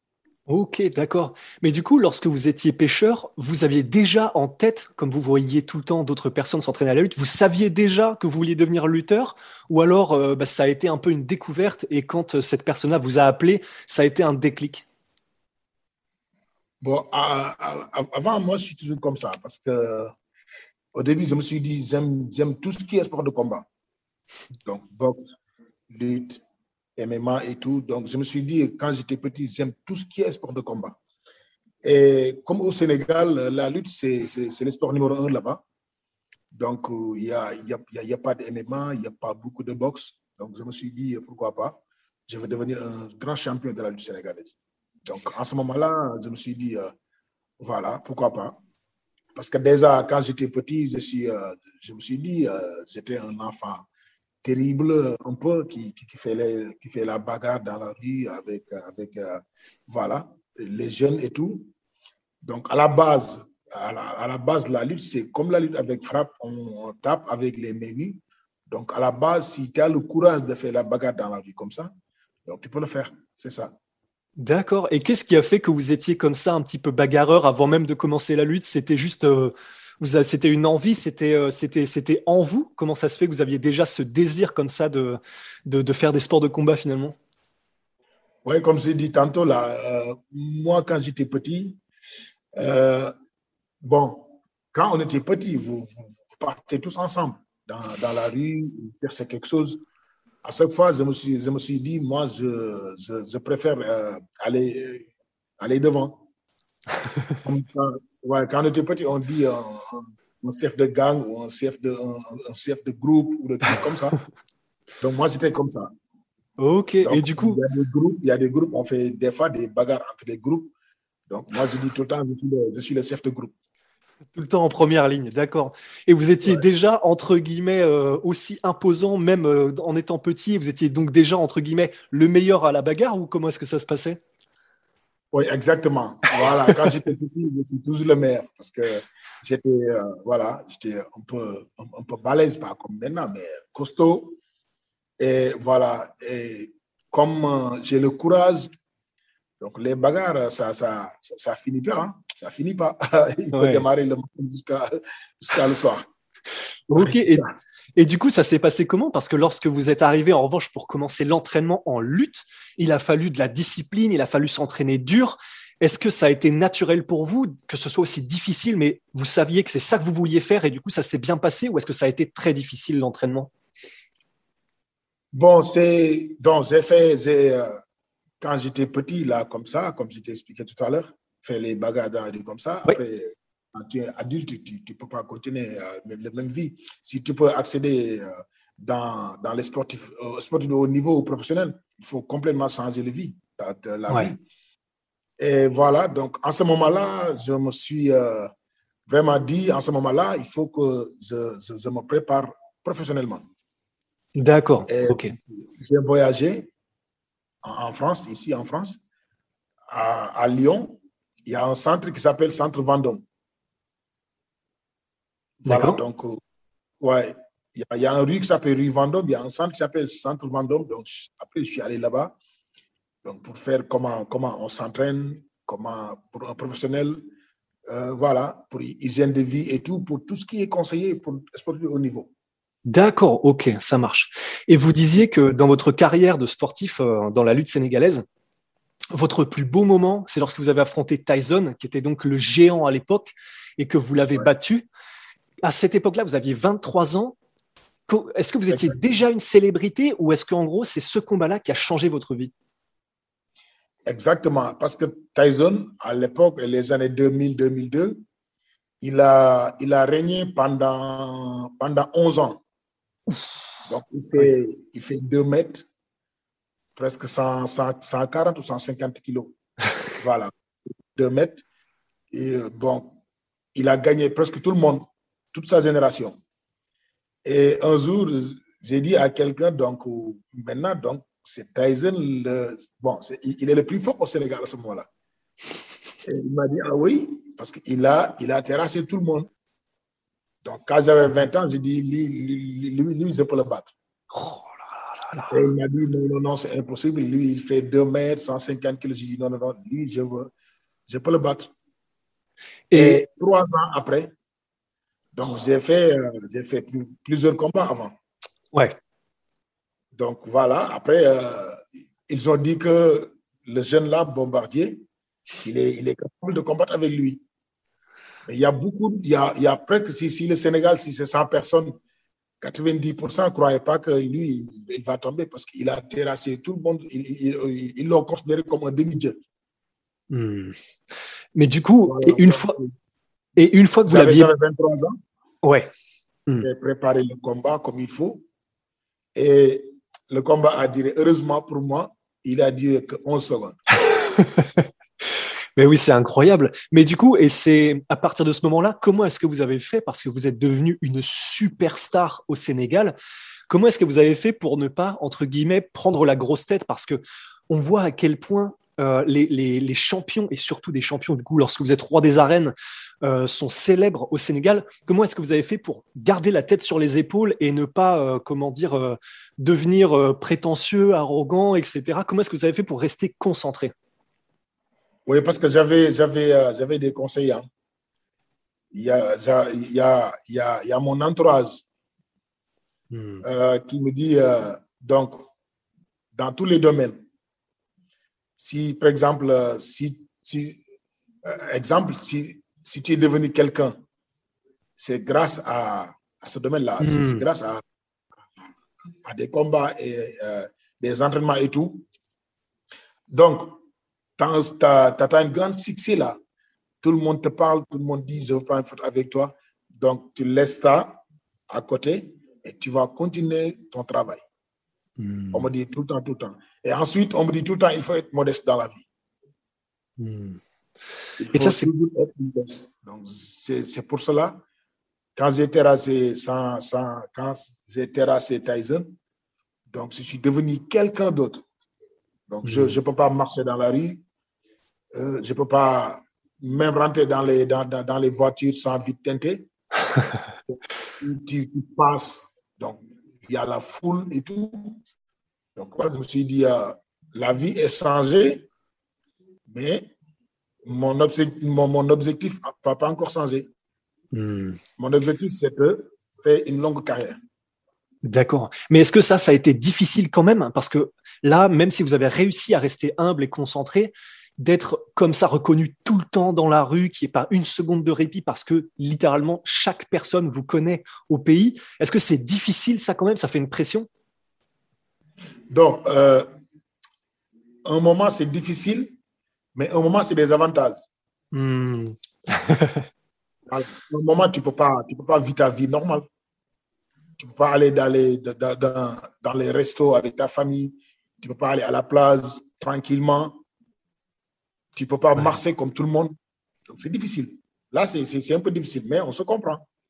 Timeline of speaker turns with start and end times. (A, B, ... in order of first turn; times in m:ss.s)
0:00.5-0:14.8 A
0:16.8-0:20.1 B
0:20.9-0:23.6 B
0:24.6-0:25.4 B
0:25.9-0:26.4 B
0:27.0-0:31.0 B
0:31.8-0:35.6 B
0:36.5-0:41.8 B
0:42.3-0:46.9 B
0:47.6-0:48.6 B
0:49.3-0:53.8 B
0:54.4-1:01.7 B
1:02.4-1:11.9 B
1:12.4-1:13.7 B
1:14.4-1:27.2 A
1:28.4-1:31.8 B
1:32.6-1:33.1 B
1:33.8-1:39.8 B
1:40.4-1:45.1 B
1:45.6-1:46.2 B
1:47.4-1:54.2 B
1:55.0-1:55.9 B
1:56.6-1:57.6 A
1:57.0-2:00.7 B
2:01.3-2:03.5 B
2:04.3-2:14.2 A
2:15.3-2:24.4 B
2:16.4-2:16.8 A
2:25.2-2:28.7 B
2:29.6-2:36.1 B
2:33.5-2:33.8 A
2:36.9-2:53.5 A
2:37.0-2:37.5 B
2:55.3-2:57.8 B
2:58.4-3:14.4 B
3:14.1-3:14.3 A
3:15.4-3:18.5 B
3:19.1-3:23.5 B
3:24.4-3:25.3 A
3:24.9-3:26.7 B
3:27.6-3:29.0 B
3:29.9-3:33.2 B
3:35.6-3:36.4 B
3:35.6-3:36.0 A
3:37.0-3:42.4 B
3:43.2-3:47.2 B
3:47.9-3:52.3 B
3:52.8-3:58.2 A
3:59.1-4:04.8 A
4:05.6-4:07.4 A
4:08.1-4:12.5 A
4:08.7-4:09.0 B
4:14.0-4:18.2 B
4:19.0-4:22.6 B
4:23.8-4:25.8 B
4:27.0-4:29.5 B
4:30.2-4:30.5 B
4:31.1-4:31.6 B
4:32.3-4:33.2 B
4:33.7-4:36.4 B
4:37.4-4:45.1 B
4:46.2-4:49.5 B
4:50.6-4:53.9 B
4:54.3-4:55.5 A
4:55.5-5:00.5 B
5:01.1-5:01.7 B
5:02.9-5:03.2 A
5:02.9-5:04.3 B
5:05.3-5:08.2 B
5:10.1-5:15.0 B
5:15.6-5:17.4 B
5:18.4-5:22.0 B
5:22.6-5:29.4 B
5:30.3-5:30.8 A
5:31.5-5:32.8 A
5:32.0-5:32.9 B
5:33.6-5:34.5 A
5:34.0-5:35.2 B
5:35.6-5:35.9 A
5:36.6-5:38.4 B
5:39.3-5:43.8 B
5:44.0-5:44.9 A
5:45.8-5:53.2 A
5:53.7-6:13.9 A
6:15.2-6:17.7 B
6:18.9-6:21.8 B
6:23.1-6:23.4 A
6:23.4-6:25.5 B
6:26.3-6:27.2 B
6:28.6-6:30.8 B
6:31.4-6:34.0 B
6:35.0-6:37.8 B
6:37.0-6:37.4 A
6:39.2-6:42.0 B
6:43.3-6:43.8 B
6:44.4-6:46.4 B
6:47.0-6:54.4 B
6:55.2-6:55.7 A
6:55.5-6:59.1 B
7:00.2-7:00.6 A
7:01.4-7:04.6 B
7:01.5-7:01.9 A
7:05.4-7:09.1 B
7:09.9-7:11.6 B
7:12.5-7:14.2 B
7:12.6-7:13.0 A
7:15.1-7:19.7 B
7:20.7-7:25.0 B
7:25.8-7:28.7 B
7:29.7-7:30.1 B
7:30.8-7:33.7 B
7:34.3-7:34.8 A
7:35.0-7:37.4 B
7:38.2-7:54.1 A
7:55.7-7:56.5 B
7:57.8-7:59.2 B
7:59.7-8:01.1 B
8:01.5-8:03.0 A
8:03.7-8:06.3 B
8:07.4-8:13.6 B
8:14.9-8:16.4 B
8:16.9-8:19.8 B